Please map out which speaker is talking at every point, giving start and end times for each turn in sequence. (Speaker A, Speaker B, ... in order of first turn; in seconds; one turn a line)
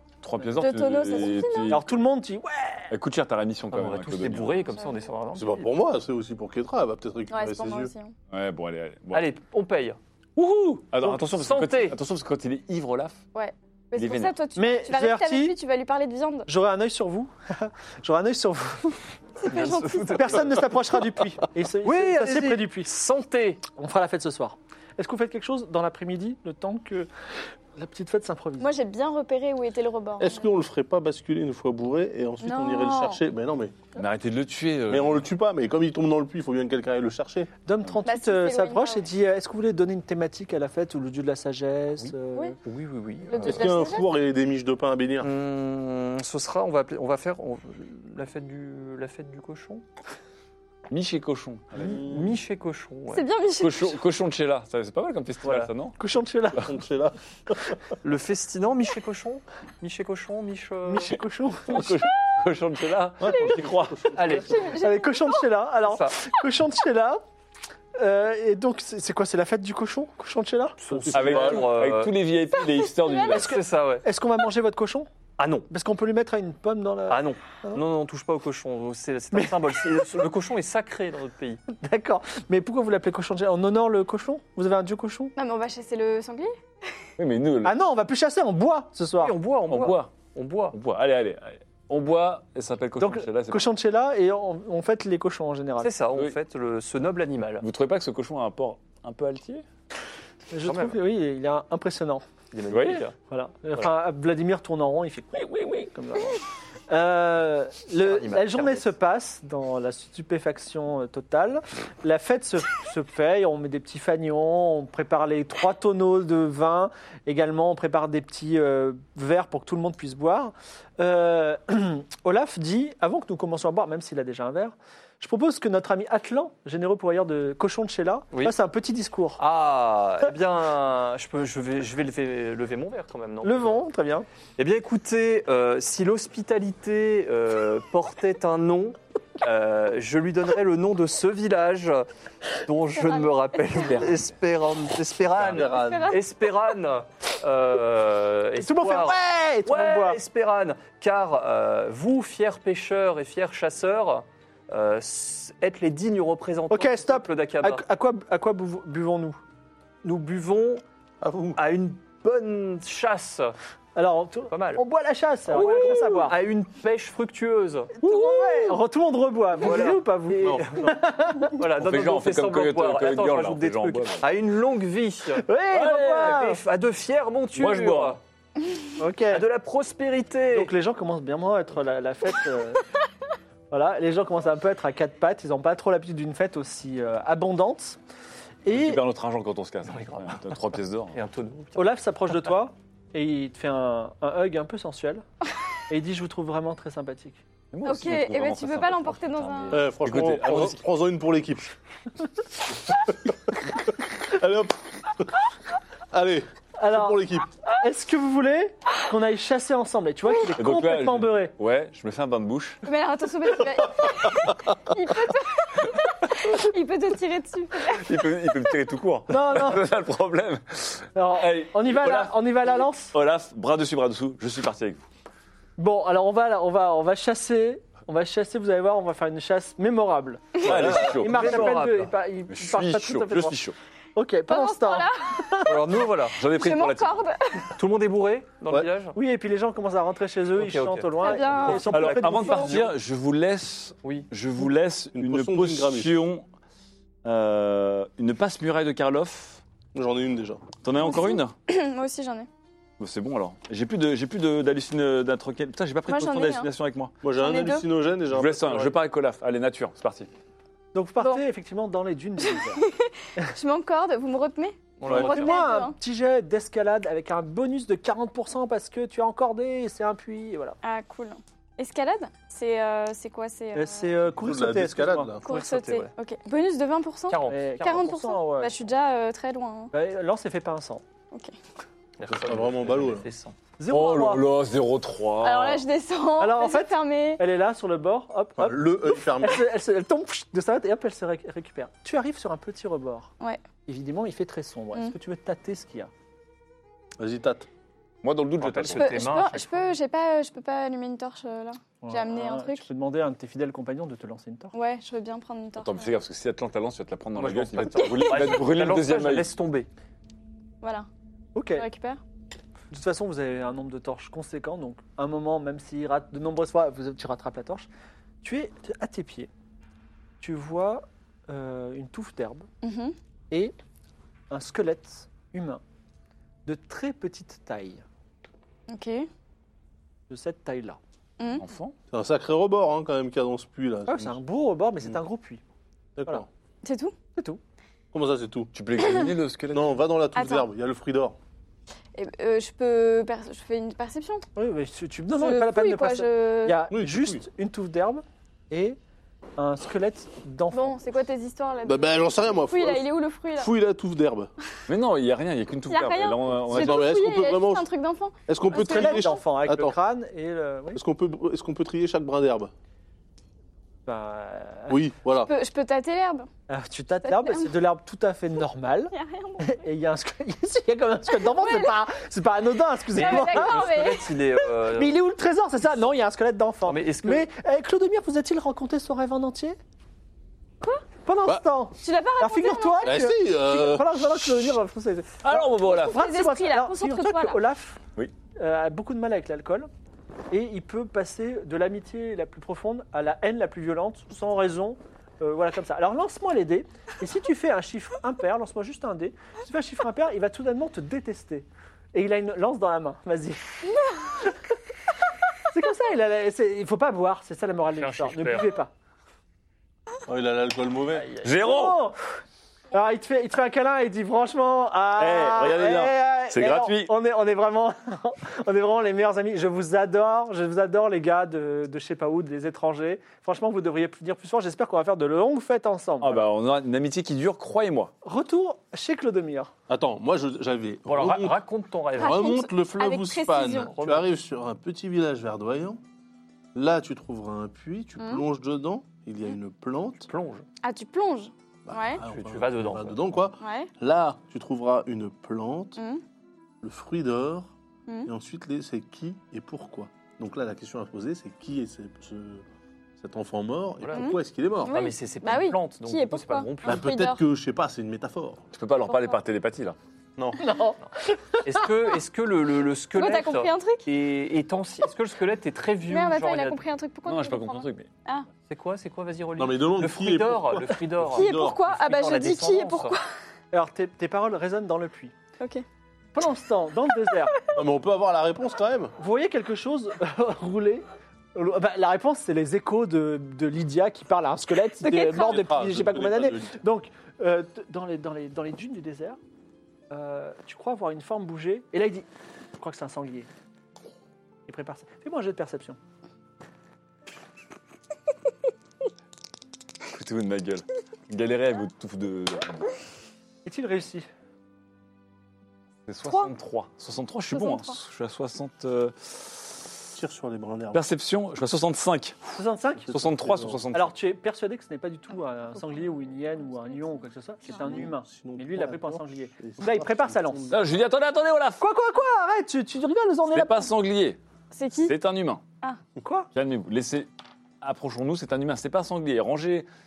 Speaker A: 0.2-1.9
Speaker B: 0.6-1.8
Speaker C: 1.7-2.9
Speaker A: 2.9-4.6
Speaker D: 3.7-5.7
Speaker B: 4.7-5.0
Speaker E: 5.3-7.9
Speaker B: 7.3-8.1
Speaker A: 8.3-9.3
Speaker D: 9.1-10.0
Speaker A: 10.4-13.2
Speaker D: 11.0-12.0
Speaker B: 13.3-16.5
Speaker A: 13.9-14.4
Speaker C: 14.6-15.6
Speaker C: 16.5-19.0
Speaker B: 19.4-20.5
Speaker D: 19.4-20.8
Speaker C: 20.1-22.9
Speaker D: 21.8-23.6
Speaker C: 23.6-27.1
Speaker C: 27.8-28.7
Speaker B: 28.6-30.5
Speaker E: 30.2-33.8
Speaker B: 32.4-33.2
Speaker A: 34.0-35.3
Speaker E: 34.9-37.5
Speaker C: 37.7-42.6
Speaker B: 38.0-39.1
Speaker D: 42.0-43.7
Speaker B: 43.3-44.1
Speaker E: 43.4-45.3
Speaker D: 45.2-49.9
Speaker A: 50.9-52.1
Speaker D: 51.8-53.3
Speaker E: 51.9-52.3
Speaker B: 53.1-54.0
Speaker A: 53.6-56.0
Speaker D: 55.4-55.7
Speaker C: 56.0-56.7
Speaker E: 56.5-57.8
Speaker D: 58.0-61.2
Speaker C: 60.9-62.0
Speaker A: 61.7-64.1
Speaker E: 63.2-64.5
Speaker D: 64.1-64.6
Speaker B: 64.5-65.4
Speaker C: 64.6-67.2
Speaker D: 65.8-66.2
Speaker C: 68.0-71.0
Speaker D: 70.8-72.2
Speaker A: 71.1-73.6
Speaker E: 71.1-71.6
Speaker B: 72.8-73.5
Speaker D: 73.3-74.1
Speaker C: 74.0-75.1
Speaker D: 75.4-75.7
Speaker C: 75.7-77.8
Speaker D: 77.1-81.6
Speaker C: 79.3-80.0
Speaker C: 81.7-85.3
Speaker B: 85.4-86.5
Speaker A: 87.2-87.8
Speaker C: 87.6-89.3
Speaker D: 89.2-90.8
Speaker A: 89.7-90.1
Speaker A: 90.7-93.7
Speaker C: 93.0-95.9
Speaker D: 95.8-97.7
Speaker A: 97.6-99.6
Speaker C: 100.5-102.3
Speaker D: 100.6-101.0
Speaker D: 102.5-103.2
Speaker A: 102.7-103.1
Speaker C: 103.2-129.4
Speaker D: 108.0-108.9
Speaker D: 129.4-133.8
Speaker C: 133.4-134.3
Speaker D: 134.6-142.1
Speaker D: 142.7-157.8
Speaker B: 143.0-144.0
Speaker A: 143.9-144.2
Speaker E: 145.3-146.2
Speaker B: 145.6-146.2
Speaker C: 148.6-150.2
Speaker C: 156.7-159.4
Speaker D: 160.0-160.8
Speaker E: 161.2-161.6
Speaker D: 161.6-163.6
Speaker C: 164.0-166.4
Speaker D: 164.5-164.8
Speaker D: 165.5-168.0
Speaker C: 168.0-171.6
Speaker D: 169.6-170.0
Speaker E: 170.4-171.0
Speaker D: 171.5-178.2
Speaker A: 171.8-174.3
Speaker C: 175.4-176.6
Speaker A: 175.7-176.4
Speaker A: 177.6-178.2
Speaker C: 179.0-179.5
Speaker D: 179.3-180.7
Speaker C: 180.5-182.8
Speaker C: 183.7-188.0
Speaker C: 188.7-189.0
Speaker A: 188.7-191.2
Speaker D: 189.8-192.0
Speaker C: 191.8-195.2
Speaker C: 195.9-197.4
Speaker A: 197.7-200.8
Speaker B: 197.8-199.8
Speaker E: 199.7-201.8
Speaker E: 202.9-205.3
Speaker E: 206.1-207.5
Speaker C: 206.8-211.6
Speaker A: 210.5-212.8
Speaker B: 212.8-218.6
Speaker A: 217.9-225.1
Speaker C: 219.3-219.8
Speaker C: 221.2-223.1
Speaker C: 225.8-233.6
Speaker A: 230.6-231.8
Speaker E: 230.7-231.0
Speaker D: 230.9-232.2
Speaker A: 232.5-233.8
Speaker C: 234.2-235.7
Speaker B: 234.5-235.7
Speaker D: 235.6-236.4
Speaker A: 236.3-237.3
Speaker B: 236.4-237.7
Speaker D: 237.7-239.2
Speaker C: 239.1-242.8
Speaker D: 240.5-242.9
Speaker B: 241.2-242.2
Speaker A: 241.9-246.5
Speaker D: 244.0-244.3
Speaker E: 245.2-246.2
Speaker A: 247.2-249.6
Speaker E: 249.9-250.7
Speaker A: 250.8-251.5
Speaker B: 251.0-252.5
Speaker A: 253.0-257.1
Speaker B: 256.1-256.7
Speaker E: 257.2-258.9
Speaker B: 257.4-257.9
Speaker A: 258.3-260.3
Speaker C: 260.9-262.9
Speaker B: 262.4-265.9
Speaker D: 265.0-265.6
Speaker C: 265.1-270.8
Speaker B: 270.8-274.1
Speaker C: 273.7-275.4
Speaker E: 274.3-275.4
Speaker D: 275.4-276.1
Speaker B: 275.4-279.9
Speaker D: 277.3-278.1
Speaker C: 277.5-278.7
Speaker C: 279.9-281.0
Speaker D: 282.2-283.6
Speaker E: 282.2-283.3
Speaker C: 283.8-284.5
Speaker A: 283.9-285.9
Speaker B: 285.4-287.4
Speaker C: 286.4-293.3
Speaker E: 288.6-289.7
Speaker C: 293.9-296.1
Speaker E: 297.2-297.7
Speaker A: 298.2-299.1
Speaker D: 298.6-299.9
Speaker B: 298.9-302.9
Speaker C: 302.0-304.7
Speaker B: 304.8-306.1
Speaker A: 305.8-309.5
Speaker D: 307.4-309.9
Speaker B: 308.0-308.6
Speaker B: 310.8-311.1
Speaker C: 311.6-311.9
Speaker B: 311.8-312.2
Speaker C: 312.9-317.9
Speaker C: 318.4-319.5
Speaker C: 320.4-322.7
Speaker B: 322.8-323.1
Speaker C: 324.5-325.8
Speaker C: 326.7-328.0
Speaker B: 328.9-329.3
Speaker C: 330.3-331.0
Speaker B: 331.4-331.6
Speaker A: 331.6-332.0
Speaker E: 332.1-334.4
Speaker C: 334.1-335.6
Speaker E: 336.2-336.5
Speaker B: 336.8-337.1
Speaker E: 338.1-338.7
Speaker A: 338.7-340.0
Speaker B: 339.0-339.3
Speaker E: 339.7-341.4
Speaker B: 340.4-340.7
Speaker B: 342.1-344.5
Speaker C: 344.6-349.0
Speaker B: 345.4-346.8
Speaker E: 346.9-347.4
Speaker C: 349.6-351.0
Speaker B: 350.7-353.7
Speaker E: 351.9-354.5
Speaker A: 354.9-357.2
Speaker B: 355.9-359.4
Speaker E: 356.7-357.9
Speaker E: 358.5-360.0
Speaker C: 358.7-361.0
Speaker E: 360.9-362.7
Speaker C: 364.1-365.0
Speaker E: 364.9-365.5
Speaker B: 365.5-366.5
Speaker C: 366.7-373.8
Speaker B: 367.2-367.7
Speaker B: 369.1-369.8
Speaker B: 371.3-372.0
Speaker D: 373.1-375.2
Speaker B: 373.2-374.3
Speaker C: 374.8-379.8
Speaker D: 376.9-377.5
Speaker C: 381.2-388.0
Speaker B: 382.0-383.2
Speaker E: 383.0-384.8
Speaker A: 385.4-386.2
Speaker B: 386.0-387.6
Speaker C: 388.6-389.9
Speaker C: 390.5-404.6
Speaker C: 405.7-408.9
Speaker D: 407.9-408.7
Speaker E: 410.3-411.3
Speaker A: 411.4-412.0
Speaker C: 411.5-412.2
Speaker C: 412.9-426.4
Speaker A: 415.2-417.1
Speaker A: 426.2-428.1
Speaker C: 428.2-429.7
Speaker E: 429.9-431.6
Speaker D: 431.1-432.7
Speaker E: 432.2-436.0
Speaker B: 432.2-433.9
Speaker D: 433.8-434.3
Speaker E: 436.8-440.3
Speaker B: 438.2-438.4
Speaker D: 440.2-440.7
Speaker B: 440.8-442.2
Speaker E: 441.9-446.0
Speaker D: 442.2-443.4
Speaker B: 443.6-443.9
Speaker B: 446.0-446.2
Speaker E: 446.8-447.7
Speaker E: 448.2-452.6
Speaker E: 453.2-454.9
Speaker D: 454.0-457.2
Speaker B: 454.1-457.4
Speaker E: 456.9-458.6
Speaker A: 458.8-460.0
Speaker B: 459.1-459.4
Speaker E: 460.4-460.6
Speaker C: 460.6-461.6
Speaker D: 461.6-466.9
Speaker B: 463.2-464.1
Speaker B: 466.1-468.5
Speaker A: 467.3-468.1
Speaker D: 468.7-473.2
Speaker E: 469.6-471.9
Speaker B: 471.3-473.2
Speaker C: 473.7-475.3
Speaker C: 476.3-477.6
Speaker E: 477.7-479.1
Speaker C: 479.2-489.4
Speaker B: 485.0-485.6
Speaker E: 485.0-486.8
Speaker C: 490.1-492.3
Speaker C: 492.8-493.5
Speaker C: 494.7-496.0
Speaker A: 500.1-502.9
Speaker C: 503.6-504.3
Speaker A: 506.1-509.9
Speaker B: 507.5-508.0
Speaker E: 510.1-511.0
Speaker A: 510.9-512.6
Speaker C: 512.6-513.1
Speaker A: 513.1-514.1
Speaker E: 513.1-513.8
Speaker C: 513.9-520.6
Speaker B: 517.7-518.0
Speaker E: 517.7-520.8
Speaker A: 520.7-521.8
Speaker C: 521.8-523.9
Speaker A: 523.5-524.4
Speaker B: 524.7-525.1
Speaker A: 524.9-525.6
Speaker C: 526.2-526.5
Speaker A: 526.5-527.3
Speaker A: 527.8-529.9